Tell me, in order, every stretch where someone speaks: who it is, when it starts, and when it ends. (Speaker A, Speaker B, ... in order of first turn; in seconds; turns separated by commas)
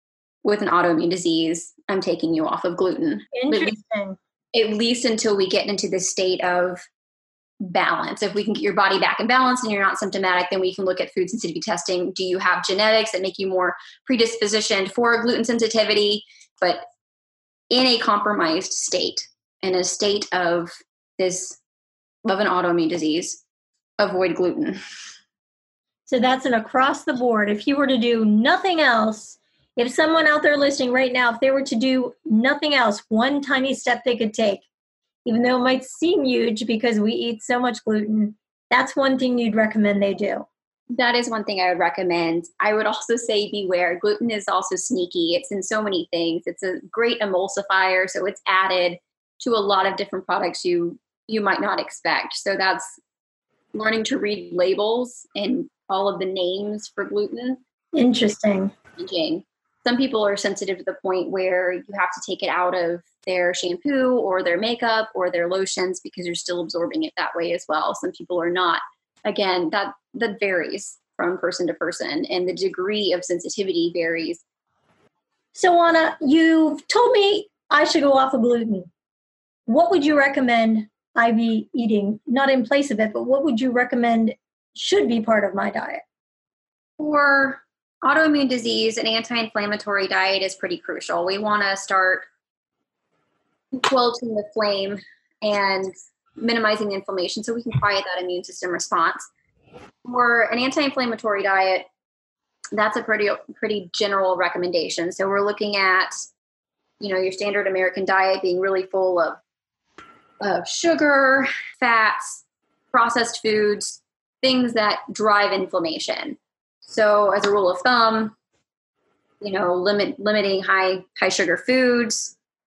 Speaker A: 0.4-3.8, Speaker B: 3.3-4.2, Speaker A: 4.5-6.9, Speaker A: 7.6-16.8, Speaker A: 17.7-21.6, Speaker A: 22.2-23.4, Speaker A: 24.0-24.8, Speaker B: 26.1-34.7, Speaker B: 35.2-40.5, Speaker A: 40.9-53.0, Speaker A: 53.7-57.6, Speaker B: 58.0-58.7, Speaker A: 59.0-74.4, Speaker B: 75.5-78.9, Speaker B: 79.7-86.0, Speaker A: 87.0-92.3, Speaker A: 93.7-99.3, Speaker A: 100.0-101.9, Speaker A: 102.7-106.1, Speaker A: 107.0-109.4, Speaker A: 110.4-118.4, Speaker A: 119.4-122.3